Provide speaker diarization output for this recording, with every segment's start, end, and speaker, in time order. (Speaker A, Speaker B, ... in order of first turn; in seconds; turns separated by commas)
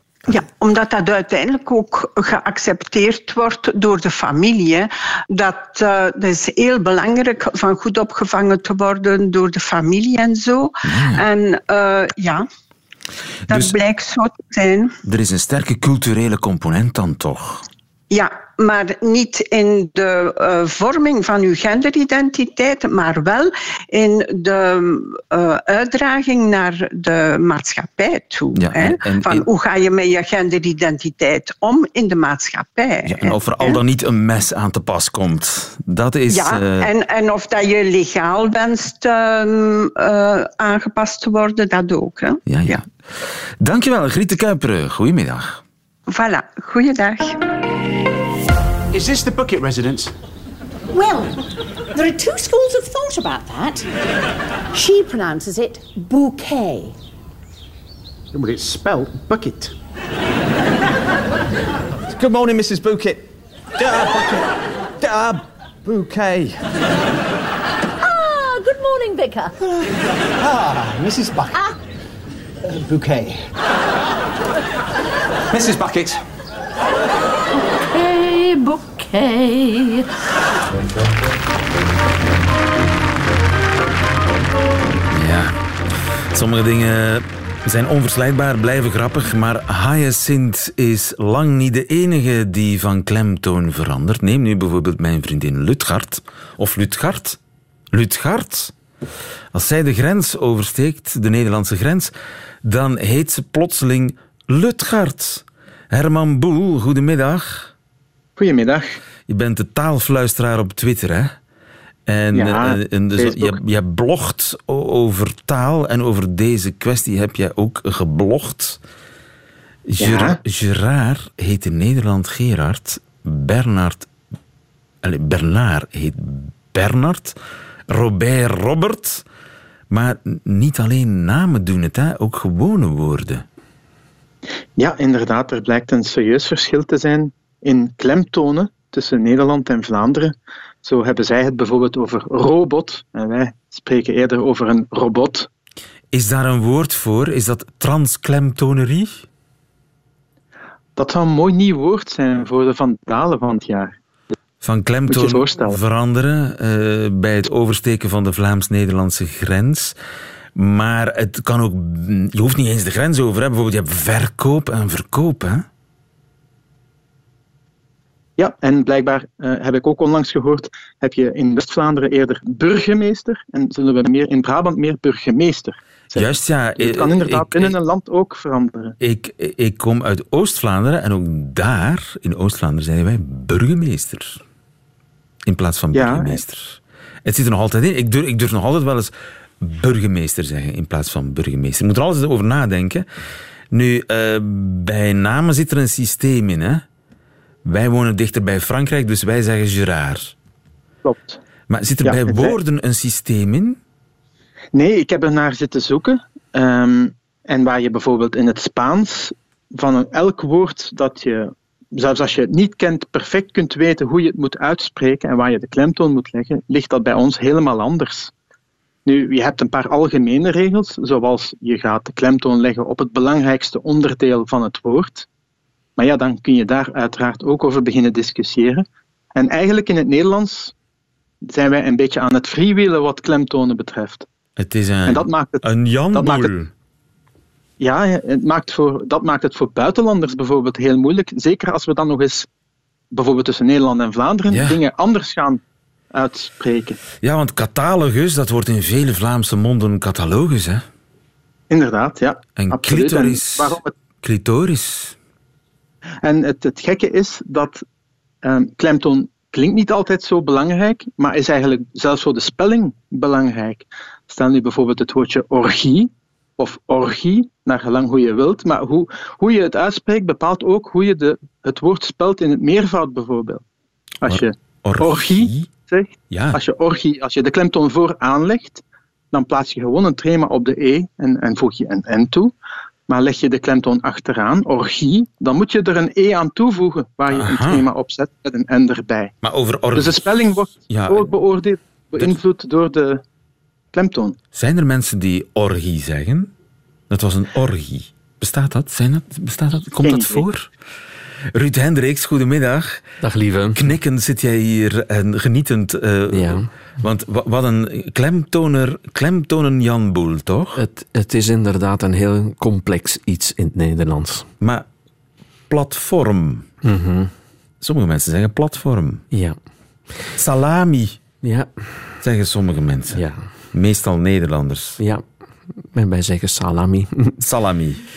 Speaker A: 0.3-12.4, Speaker B: 10.8-11.2, Speaker B: 13.5-13.7, Speaker A: 13.5-15.0, Speaker B: 15.0-17.7, Speaker A: 18.1-33.8, Speaker B: 28.6-29.5, Speaker B: 33.0-36.9, Speaker A: 36.3-42.8, Speaker B: 42.5-45.6, Speaker A: 46.1-47.4, Speaker C: 48.9-50.1, Speaker D: 50.9-51.3, Speaker D: 52.0-53.9, Speaker D: 54.7-56.9, Speaker C: 58.3-59.7, Speaker C: 62.1-63.3, Speaker C: 63.8-66.6, Speaker D: 68.0-69.5, Speaker C: 69.8-71.6, Speaker C: 72.7-73.5, Speaker C: 75.5-76.2, Speaker D: 77.9-80.1, Speaker B: 85.1-85.6, Speaker B: 86.3-97.4, Speaker B: 97.9-98.7, Speaker B: 99.5-102.1, Speaker B: 102.6-107.7, Speaker E: 108.4-109.0, Speaker B: 109.3-111.4, Speaker B: 112.1-118.8, Speaker E: 112.3-113.6, Speaker B: 119.8-124.1, Speaker E: 120.0-120.4, Speaker B: 125.0-127.4, Speaker B: 127.9-129.2, Speaker B: 129.9-133.4, Speaker E: 134.8-145.5, Speaker B: 146.1-149.2, Speaker E: 150.9-153.9, Speaker B: 154.6-159.9, Speaker E: 155.1-155.8, Speaker B: 160.5-165.7, Speaker E: 168.4-178.9, Speaker B: 176.1-177.8, Speaker B: 179.0-184.4, Speaker B: 185.4-193.0, Speaker E: 185.9-186.4, Speaker B: 193.7-196.8, Speaker B: 197.6-200.3, Speaker E: 201.0-201.4, Speaker B: 201.7-203.8, Speaker E: 202.0-202.6, Speaker E: 204.7-218.3, Speaker E: 219.0-225.2, Speaker E: 226.0-230.7, Speaker E: 231.4-234.2, Speaker B: 234.6-236.7, Speaker E: 235.1-236.5, Speaker E: 237.8-242.5, Speaker E: 243.1-245.6, Speaker B: 244.5-244.8, Speaker E: 246.1-247.0, Speaker B: 247.2-250.8, Speaker E: 251.7-253.9, Speaker B: 252.6-255.2, Speaker E: 256.2-257.8, Speaker E: 258.4-273.6, Speaker E: 274.2-282.5, Speaker B: 274.2-275.7, Speaker B: 276.3-276.6, Speaker E: 283.1-289.3, Speaker B: 287.3-287.9, Speaker B: 289.4-291.3, Speaker E: 289.9-293.2, Speaker E: 293.9-294.4, Speaker B: 294.5-296.5, Speaker B: 297.1-300.7, Speaker E: 300.0-300.4, Speaker B: 301.5-303.1, Speaker F: 303.2-303.8, Speaker B: 303.7-310.8, Speaker F: 306.3-306.7, Speaker F: 310.8-314.5, Speaker B: 314.6-314.9, Speaker B: 315.7-316.7, Speaker F: 316.8-317.3, Speaker B: 317.8-319.2, Speaker F: 319.3-319.6, Speaker B: 320.3-321.2, Speaker F: 321.4-321.8, Speaker B: 322.2-325.0, Speaker F: 323.1-323.5, Speaker F: 325.8-327.4, Speaker B: 327.4-328.0